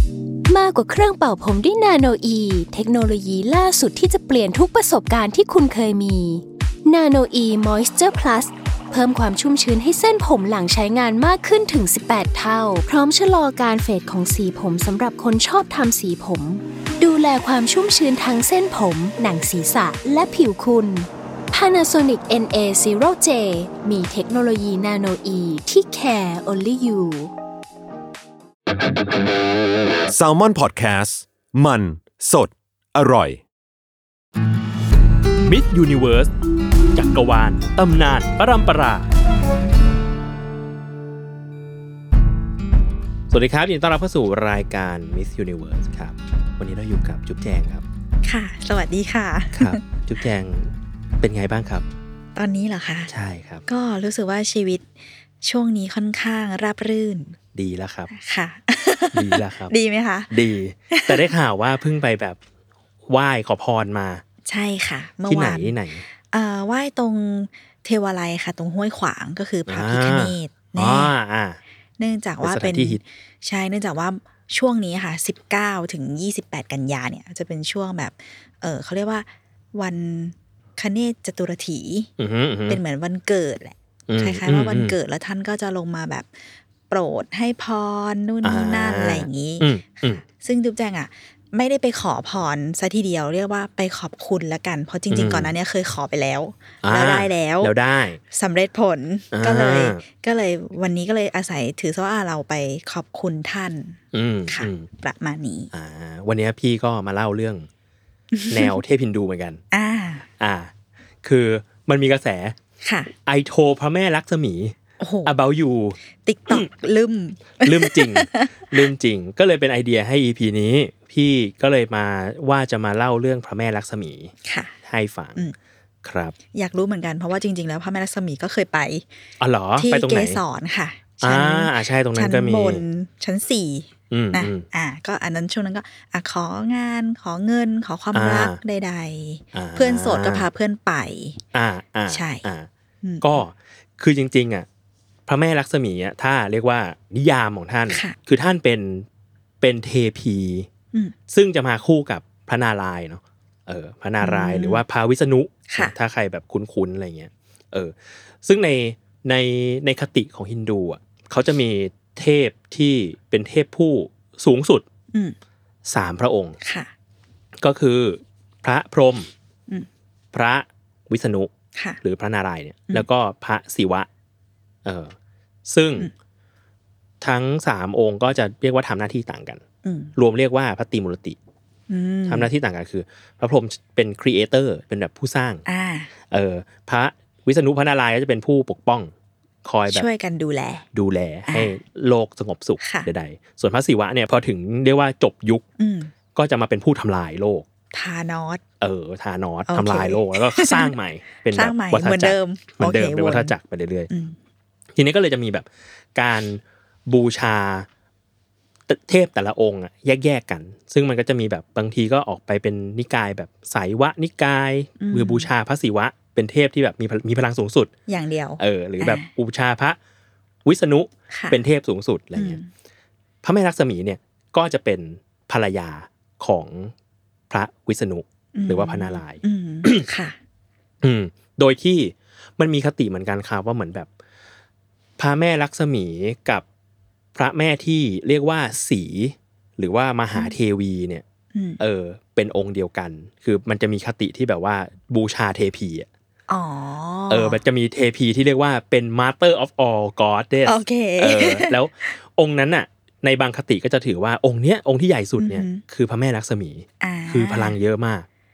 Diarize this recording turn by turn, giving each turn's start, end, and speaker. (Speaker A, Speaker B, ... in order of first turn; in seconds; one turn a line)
Speaker A: 0.5-27.3
Speaker B: 30.1-33.4
Speaker C: 35.4-36.3
Speaker C: 36.9-39.1
Speaker C: 43.3-47.9
Speaker D: 48.2-49.8
Speaker C: 49.5-51.9
Speaker D: 52.4-53.1
Speaker C: 53.1-53.6
Speaker D: 53.7-54.9
Speaker D: 55.4-57.4
Speaker C: 57.5-58.1
Speaker D: 58.1-60.3
Speaker C: 59.1-59.7
Speaker C: 60.3-62.4
Speaker D: 60.9-61.3
Speaker C: 63.1-64.2
Speaker D: 64.5-65.7
Speaker C: 65.3-66.0
Speaker D: 66.3-71.1
Speaker C: 69.7-71.6
Speaker D: 72.0-82.1
Speaker C: 72.4-73.0
Speaker C: 82.2-82.8
Speaker D: 82.7-89.7
Speaker C: 84.1-85.0
Speaker C: 88.4-90.2
Speaker D: 90.2-97.7
Speaker C: 95.1-95.5
Speaker C: 96.8-98.2
Speaker D: 98.3-105.7
Speaker C: 99.3-100.0
Speaker C: 104.1-104.9
Speaker C: 105.7-107.7
Speaker D: 108.3-108.8
Speaker C: 108.5-109.6
Speaker D: 109.7-110.3
Speaker C: 110.4-110.7
Speaker C: 111.2-112.6
Speaker D: 112.8-113.1
Speaker C: 113.2-116.0
Speaker D: 115.0-115.4
Speaker D: 116.2-118.8
Speaker C: 117.6-124.3
Speaker D: 124.5-124.7
Speaker C: 124.8-125.4
Speaker C: 126.0-126.3
Speaker D: 126.5-129.1
Speaker C: 129.4-130.4
Speaker D: 129.8-141.4
Speaker C: 131.2-132.8
Speaker C: 134.1-134.7
Speaker C: 138.1-138.6
Speaker C: 139.5-140.5
Speaker C: 141.5-142.7
Speaker D: 142.1-142.4
Speaker D: 143.0-143.4
Speaker C: 143.2-144.7
Speaker C: 145.3-149.1
Speaker D: 147.9-148.2
Speaker C: 149.6-150.7
Speaker C: 151.3-164.9
Speaker D: 154.2-154.8
Speaker D: 155.7-155.9
Speaker C: 165.9-166.6
Speaker D: 166.6-166.9
Speaker C: 167.6-169.3
Speaker C: 170.3-171.5
Speaker C: 172.0-174.1
Speaker C: 174.8-175.1
Speaker C: 175.7-176.1
Speaker C: 177.2-179.6
Speaker D: 179.8-180.1
Speaker C: 180.2-181.4
Speaker D: 181.9-182.5
Speaker C: 182.3-185.6
Speaker D: 185.7-186.1
Speaker C: 186.3-189.1
Speaker C: 189.6-190.1
Speaker D: 189.9-190.8
Speaker C: 190.9-195.7
Speaker D: 191.5-191.8
Speaker D: 192.8-193.1
Speaker D: 195.8-196.1
Speaker C: 196.3-197.7
Speaker D: 197.9-198.6
Speaker C: 198.8-204.1
Speaker D: 199.7-200.9
Speaker D: 201.5-203.5
Speaker D: 204.1-204.4
Speaker C: 204.9-207.9
Speaker C: 208.9-217.9
Speaker D: 215.0-215.5
Speaker D: 218.1-219.3
Speaker C: 218.6-220.0
Speaker C: 220.7-222.6
Speaker D: 221.3-221.6
Speaker D: 222.4-222.7
Speaker C: 223.4-226.9
Speaker C: 227.5-230.1
Speaker D: 228.6-230.4
Speaker C: 231.0-234.1
Speaker C: 235.2-236.7
Speaker C: 237.3-241.2
Speaker D: 241.5-241.8
Speaker C: 241.8-246.1
Speaker D: 246.5-247.6
Speaker C: 247.3-258.3
Speaker D: 250.6-251.8
Speaker D: 255.4-255.8
Speaker D: 257.0-257.8